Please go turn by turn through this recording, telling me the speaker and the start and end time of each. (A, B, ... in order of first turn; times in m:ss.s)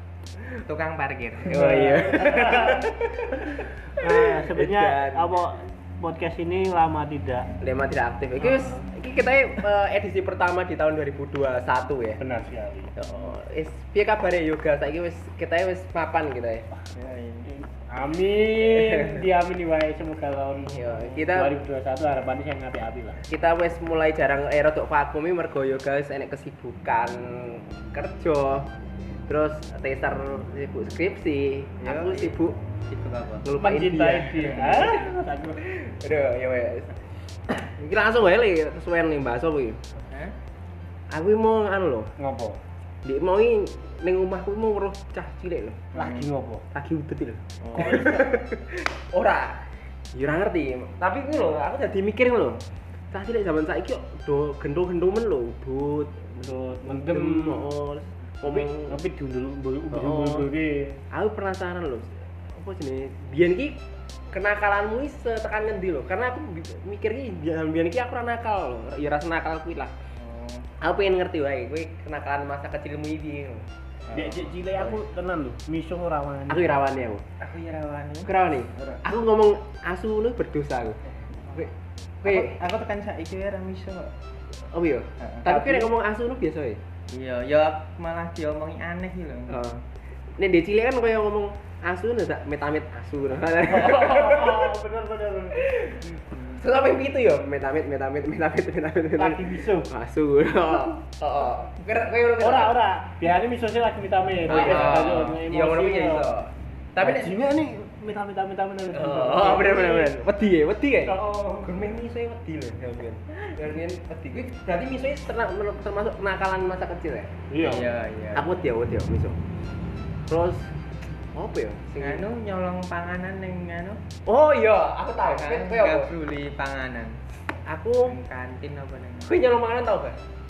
0:00.6-0:01.7 A
0:01.4-0:05.3 B
0:01.6-0:03.0 C
0:03.9-0:07.5 C
0:07.6-0:12.2 B
0:08.4-0:08.8 C
0:12.2-0:12.9 C
0:13.0-0:16.7 B
0:16.9-0:17.5 A
0:17.5-0:23.2 C
0:18.6-0:19.2 B
0:20.7-0:21.5 B
0:23.3-0:28.7 B
0:29.3-0:32.6 B
0:31.8-0:32.4 A
0:32.9-0:33.4 A
0:33.4-0:36.9 B
0:33.5-0:35.6 C
0:37.5-0:39.8 B
0:40.1-0:40.3 A
0:41.1-0:42.1 B
0:42.2-0:42.6 C
0:43.0-0:45.9 B
0:45.9-0:46.6 C
0:45.9-0:46.3 A
0:46.7-0:59.0 B
0:47.6-0:48.1 A
0:56.4-0:57.7 C
0:58.4-1:01.0 C
0:59.9-1:00.5 B
1:01.1-1:03.8 B
1:04.3-1:09.9 B
1:10.2-1:10.7 A
1:10.8-1:13.7 B
1:14.1-1:14.5 A
1:14.1-1:16.8 C
1:16.5-1:17.2 B
1:17.4-1:19.0 A
1:18.2-1:21.0 B
1:22.2-1:22.6 B
1:22.2-1:24.1 A
1:24.7-1:26.8 B
1:25.2-1:25.9 A
1:27.1-1:29.8 A
1:29.5-1:29.8 B
1:30.4-1:34.8 B
1:33.7-1:35.6 C
1:35.5-1:42.8 B
1:39.2-1:39.9 C
1:42.4-1:46.3 C
1:44.4-1:45.4 A
1:44.4-1:47.4 B
1:47.0-1:50.2 C
1:48.9-1:57.8 B
1:51.0-1:51.8 C
1:57.5-1:57.9 C
1:57.6-1:58.4 A
1:58.3-1:59.4 B
2:00.3-2:00.7 B
2:01.3-2:02.3 B
2:02.0-2:04.0 A
2:04.2-2:06.1 B
2:05.2-2:07.2 A
2:07.6-2:08.2 B
2:08.0-2:09.4 A
2:09.2-2:10.2 B